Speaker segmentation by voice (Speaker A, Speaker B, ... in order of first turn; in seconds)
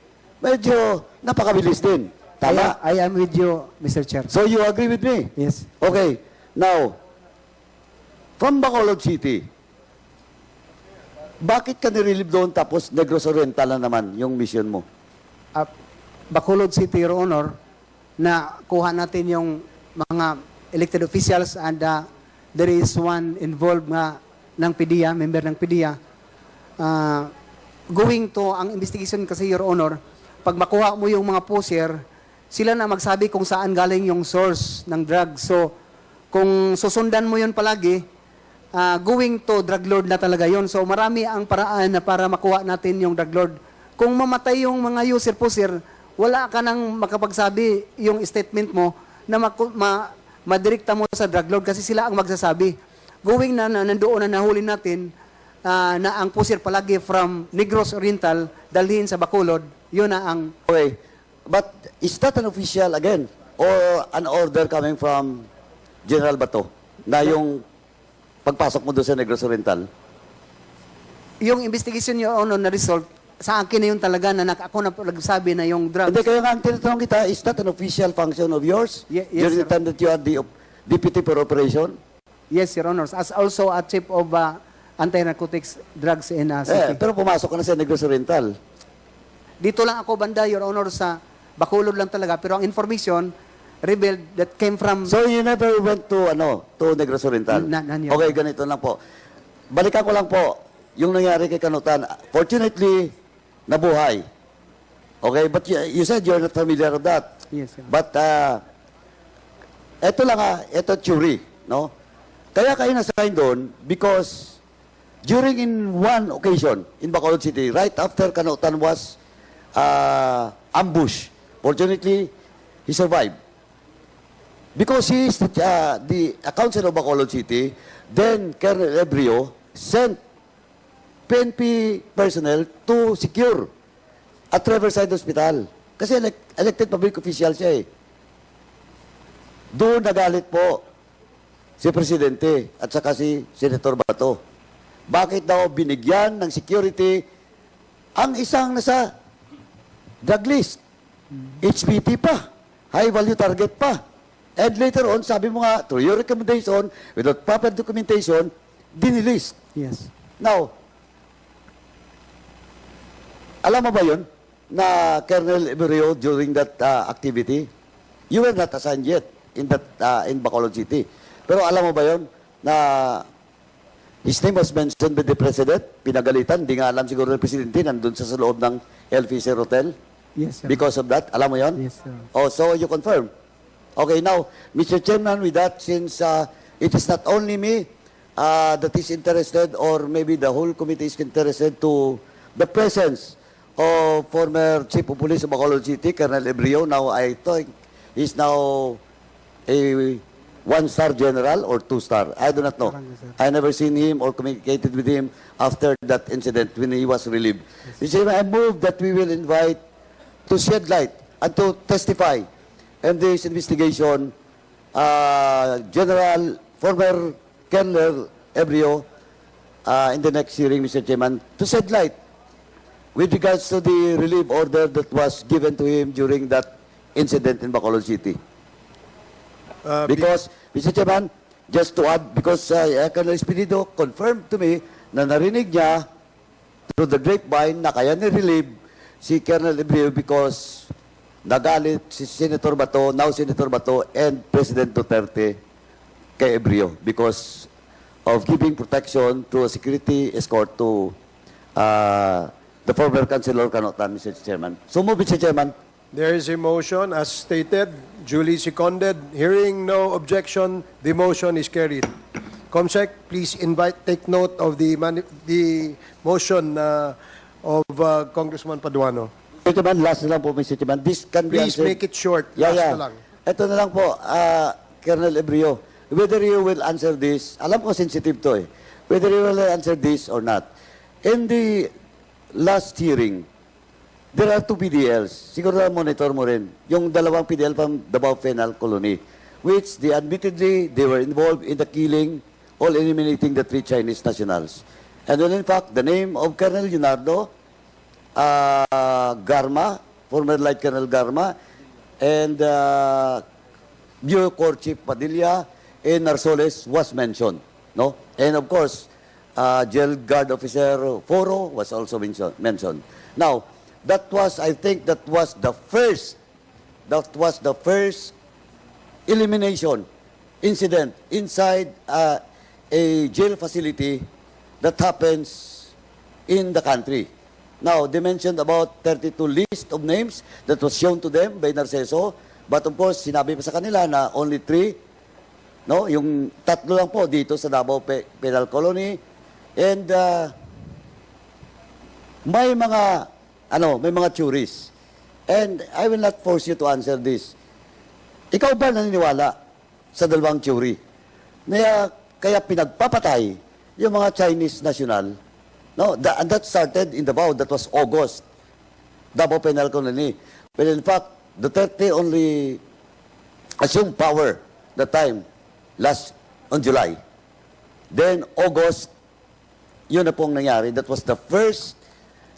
Speaker A: 0.4-2.8, 4.3-7.0, 8.4-9.5, 11.4-14.8, 60.7-65.5, 66.0-67.6, 68.4-69.9, 76.1-82.0, 86.7-88.6, 95.0-99.0, 99.7-103.1, 103.7-104.2, 105.2-107.4, 107.9-108.6, 110.0-111.9, 112.5-114.6, 115.2-119.2, 119.8-122.3, 122.9-123.4, 124.8-130.2, 131.3-133.7, 134.5-137.9, 139.7-140.8, 141.8-144.4, 145.1-147.2, 148.2-149.1, 150.2-150.8, 151.6-154.0, 154.6-159.6, 160.4-160.7, 163.6-167.7, 168.3-173.3, 174.2-179.9, 180.7-181.8, 182.3-183.3, 184.0-199.0, 199.7-209.8, 210.5-212.5, 213.0-214.3, 214.9-219.0, 219.9-222.1, 223.1-228.4, 230.1-236.1, 236.9-238.7, 239.2-240.9, 241.4-245.6, 246.4-247.7, 248.2-251.2, 251.8-255.8, 269.6-272.0, 272.6-280.7, 281.2-281.9, 282.5-283.5, 284.3-297.5, 298.4-301.5, 302.2-303.4, 304.2-316.4, 317.1-318.3, 319.3-320.1, 320.6-324.2, 324.8-325.9, 326.5-327.3, 327.8-335.0, 335.9-339.2, 339.8-340.5, 342.4-344.9, 345.5-347.5, 348.5-349.5, 350.1-351.0, 351.7-355.4, 356.0-358.4, 359.3-362.8, 363.8-365.4, 366.0-367.2, 368.1-369.1, 370.1-372.0
Speaker B: 2.4-4.3, 5.4-5.8, 16.3-17.5, 18.2-26.0, 26.8-27.3, 27.9-35.7, 36.3-38.0, 38.7-55.1, 55.6-60.5, 71.4-76.2, 79.1-79.8, 82.5-87.0, 89.6-95.1, 97.5-98.4, 107.5-107.9, 159.8-160.1, 180.4-180.8, 181.8-182.2, 202.9-203.4
Speaker C: 229.8-230.3, 256.1-262.1, 262.7-269.3, 271.5-273.2